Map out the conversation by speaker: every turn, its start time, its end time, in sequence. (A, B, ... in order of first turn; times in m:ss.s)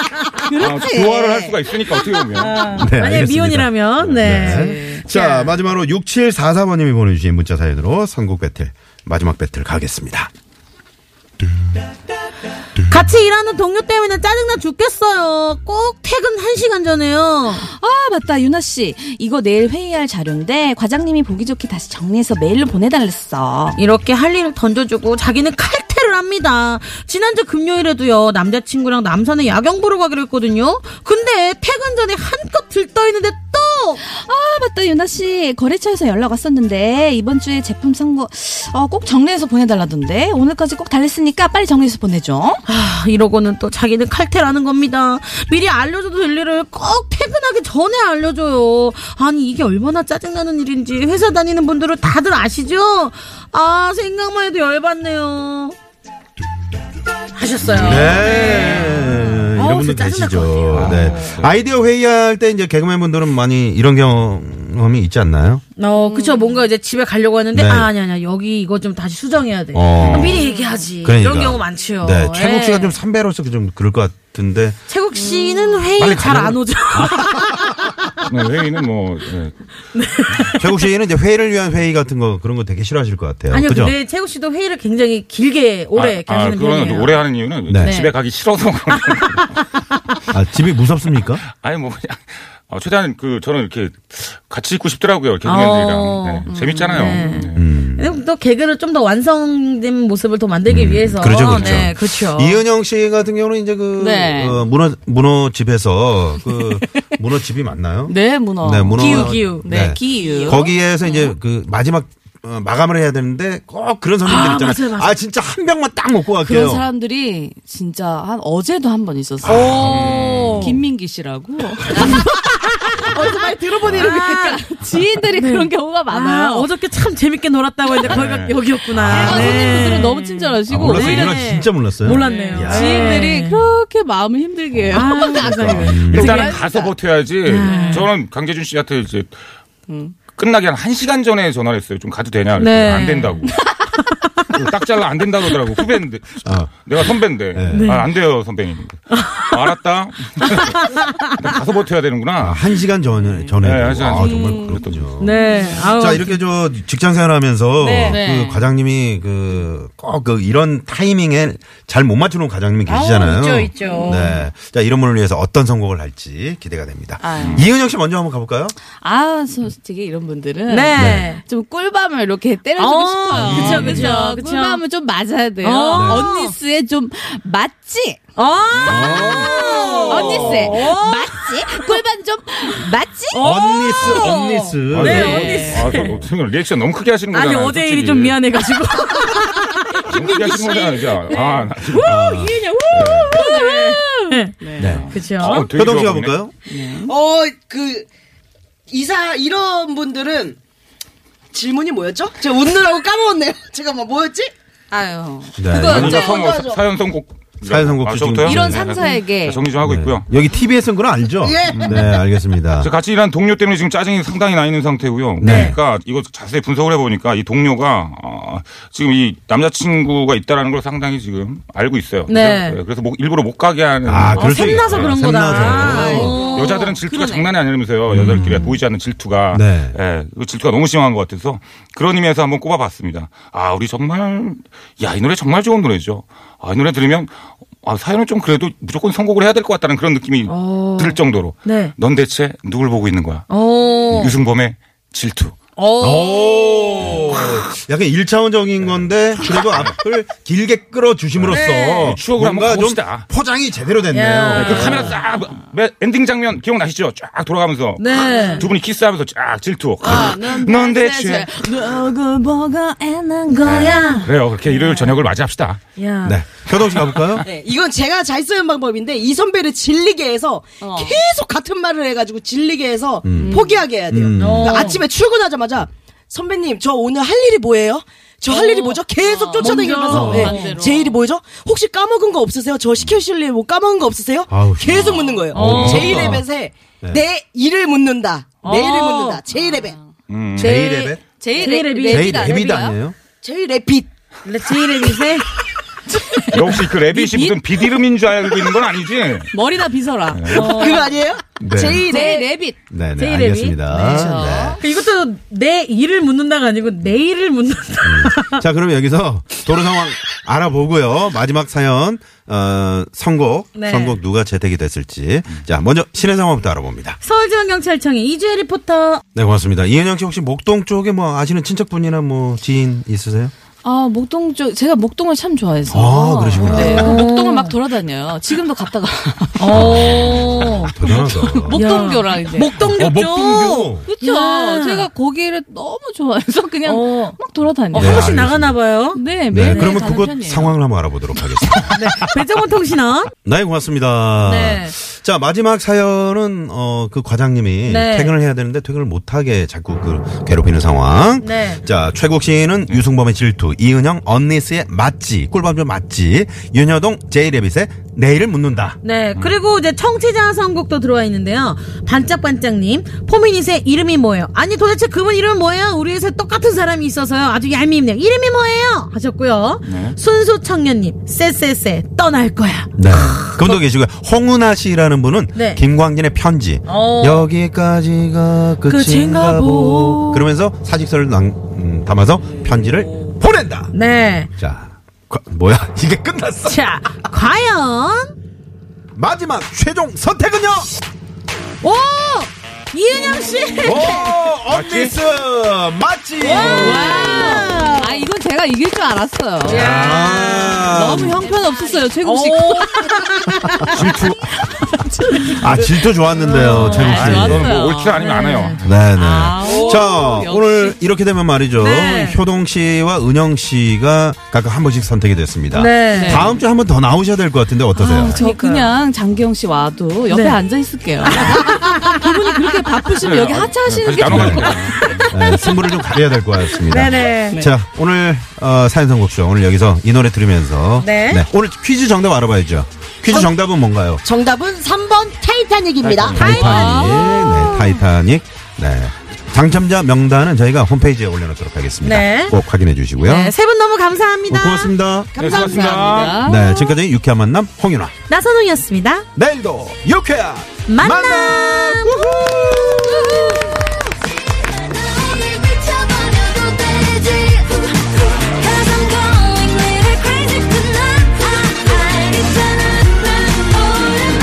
0:00.5-0:02.8 A
0:00.5-0:01.5 B
0:02.4-0:05.6 C
0:02.7-0:10.3 D
0:04.4-0:05.0 B
0:12.9-0:17.7 C
0:17.6-0:23.8 B
0:23.8-0:34.0 C
0:34.1-0:42.6 B
0:42.6-0:55.7 C
0:57.4-1:01.4 C
0:57.6-0:58.5 A
0:57.8-1:05.6 D
1:00.7-1:01.6 A
1:05.8-1:13.0 C
1:06.0-1:06.6 B
1:07.5-1:07.9 D
1:09.7-1:10.4 D
1:10.0-1:10.4 A
1:10.3-1:10.8 B
1:11.0-1:14.8 D
1:14.9-1:17.8 C
1:15.1-1:16.0 B
1:16.0-1:17.7 D
1:18.2-1:19.7 A
1:19.9-1:20.6 C
1:20.5-1:24.0 D
1:23.5-1:27.2 C
1:25.9-1:29.7 A
1:27.7-1:28.0 D
1:27.8-1:28.2 C
1:28.9-1:29.2 C
1:30.3-1:31.4 D
1:31.4-1:37.6 A
1:35.4-1:42.6 C
1:36.4-1:37.2 B
1:37.5-1:38.2 D
1:40.7-1:56.8 D
1:41.4-1:41.9 A
1:44.0-1:44.6 B
1:46.4-1:47.2 B
1:48.0-1:51.3 B
1:48.9-1:49.7 C
1:54.2-1:55.2 C
1:56.3-2:06.7 B
1:59.4-2:00.6 A
1:59.4-2:00.2 D
1:59.5-2:00.8 C
2:02.0-2:03.0 C
2:03.1-2:04.0 E
2:03.9-2:04.6 C
2:05.3-2:13.6 C
2:08.0-2:09.3 A
2:08.9-2:09.9 D
2:09.0-2:11.4 B
2:10.7-2:13.1 D
2:12.1-2:16.9 B
2:14.9-2:16.5 C
2:15.5-2:19.4 A
2:15.6-2:16.4 D
2:17.4-2:18.1 C
2:17.6-2:18.0 B
2:19.9-2:20.2 B
2:20.3-2:23.7 A
2:22.5-2:23.4 C
2:24.5-2:32.8 A
2:26.4-2:28.0 D
2:27.7-2:28.1 C
2:29.1-2:29.6 C
2:30.4-2:31.4 C
2:32.4-2:48.7 D
2:33.2-2:35.9 B
2:33.6-2:35.0 A
2:35.2-2:36.4 C
2:37.8-2:38.2 C
2:38.0-2:38.7 B
2:42.8-2:44.4 C
2:43.8-2:44.4 B
2:47.2-2:47.6 B
2:47.3-2:47.7 A
2:49.0-2:58.2 B
2:50.7-2:51.4 C
2:51.0-2:51.3 D
2:52.8-2:54.8 C
2:53.3-2:54.2 D
2:53.4-2:53.9 A
2:55.6-2:56.6 C
2:55.9-2:56.3 D
2:58.4-3:01.9 C
2:58.8-2:59.6 A
2:58.8-3:00.8 D
2:59.8-3:03.5 B
3:03.3-3:06.2 C
3:03.4-3:06.3 D
3:04.0-3:04.3 A
3:04.9-3:08.4 A
3:05.1-3:05.9 B
3:07.3-3:10.1 C
3:10.1-3:12.2 A
3:10.1-3:11.4 E
3:11.3-3:11.6 B
3:11.8-3:15.7 C
3:12.0-3:12.7 D
3:12.9-3:13.4 A
3:13.3-3:15.2 B
3:14.8-3:16.5 D
3:14.8-3:16.4 A
3:16.7-3:17.1 B
3:16.7-3:18.1 E
3:18.9-3:20.6 E
3:21.5-3:24.5 E
3:24.9-3:26.6 B
3:25.6-3:26.2 D
3:25.8-3:30.3 A
3:26.0-3:26.8 E
3:27.6-3:28.8 D
3:28.4-3:29.7 B
3:29.8-3:32.9 D
3:31.4-3:32.1 E
3:31.7-3:32.2 A
3:32.7-4:05.5 A
3:35.4-3:35.8 D
3:35.4-3:35.8 C
3:42.3-3:42.8 C
3:44.0-3:46.4 D
3:44.3-3:46.8 C
3:45.5-3:47.6 B
3:48.1-3:48.8 D
3:49.5-3:50.0 D
4:00.4-4:01.9 C
4:03.5-4:04.4 C
4:05.8-4:06.8 C
4:06.0-4:15.0 D
4:08.8-4:09.9 A
4:11.4-4:13.3 A
4:11.5-4:12.2 C
4:14.1-4:15.2 C
4:14.5-4:21.5 A
4:18.0-4:18.7 C
4:18.3-4:18.6 B
4:20.0-4:24.3 B
4:23.5-4:25.1 C
4:23.6-4:25.8 A
4:26.0-4:26.4 C
4:26.2-4:27.4 D
4:27.4-4:50.0 E
4:30.8-4:31.2 B
4:33.2-4:34.8 D
4:33.3-4:34.0 B
4:34.4-4:35.0 C
4:38.5-4:41.2 B
4:39.6-4:40.8 C
4:40.1-4:40.5 D
4:44.5-4:46.5 D
4:45.1-4:45.4 B
4:45.5-4:46.3 C
4:45.6-4:46.3 A
4:48.6-4:49.4 C
4:49.5-4:49.9 B
4:50.3-4:50.8 A
4:50.6-4:51.2 D
4:50.6-4:52.4 C
4:51.3-4:53.0 B
4:52.1-4:53.2 D
4:53.4-4:54.1 E
4:54.4-4:55.4 C
4:56.2-4:57.9 B
4:56.4-4:59.6 A
4:59.5-5:01.1 B
5:00.3-5:00.8 A
5:00.5-5:02.4 E
5:00.5-5:01.0 C
5:01.6-5:02.1 D
5:02.0-5:02.8 B
5:02.9-5:04.8 D
5:03.2-5:03.9 C
5:03.9-5:04.8 B
5:04.8-5:08.6 C
5:08.0-5:17.2 D
5:13.7-5:14.2 C
5:17.2-5:19.2 C
5:19.3-5:23.5 D
5:23.8-5:33.0 B
5:25.9-5:27.2 D
5:26.7-5:27.8 C
5:29.6-5:31.0 C
5:29.7-5:32.1 D
5:31.7-5:35.1 C
5:32.8-5:34.1 D
5:34.0-5:38.2 B
5:36.8-5:37.4 C
5:37.9-5:39.2 C
5:37.9-5:38.8 D
5:39.1-5:40.8 B
5:39.5-5:42.5 D
5:41.5-5:41.9 B
5:41.9-5:43.3 C
5:43.4-5:59.0 D
5:44.4-5:44.9 C
5:47.9-5:48.3 C
5:51.4-5:51.8 C
5:59.0-6:13.8 C
5:59.3-5:59.6 A
6:09.8-6:10.2 A
6:13.0-6:23.9 D
6:15.5-6:15.8 C
6:16.9-6:17.5 C
6:18.8-6:20.5 C
6:22.4-6:23.2 B
6:23.9-6:24.5 C
6:24.6-6:26.9 D
6:26.6-6:28.3 C
6:29.1-6:30.9 D
6:31.8-6:34.4 C
6:33.8-6:37.8 D
6:34.7-6:35.1 A
6:36.4-6:39.9 B
6:36.6-6:38.2 C
6:39.6-6:41.4 D
6:39.6-6:43.9 C
6:40.8-6:43.4 B
6:43.9-6:44.8 D
6:44.9-6:48.5 B
6:45.2-6:45.6 C
6:45.4-6:47.7 D
6:46.5-6:47.5 C
6:46.8-6:48.9 A
6:48.1-6:48.8 C
6:48.8-6:58.4 D
6:49.1-6:51.0 B
6:49.6-6:50.0 C
6:51.8-6:52.4 C
6:55.7-6:56.4 C
6:56.1-6:56.6 B
6:57.9-7:05.8 B
6:58.3-6:58.9 C
7:00.3-7:00.6 C
7:01.2-7:02.1 C
7:03.2-7:05.3 A
7:04.2-7:14.2 D
7:06.8-7:07.6 C
7:11.0-7:11.4 C
7:14.2-7:16.8 E
7:16.0-7:16.8 A
7:16.3-7:23.5 D
7:16.4-7:18.0 B
7:16.8-7:17.4 C
7:22.0-7:22.5 C
7:23.2-7:24.9 C
7:24.5-7:25.4 D
7:25.3-7:26.4 E
7:25.4-7:26.4 A
7:25.5-7:26.6 B
7:26.1-7:28.1 D
7:26.6-7:27.0 C
7:28.3-7:29.2 C
7:29.4-7:33.7 D
7:30.9-7:32.3 C
7:35.0-7:44.0 B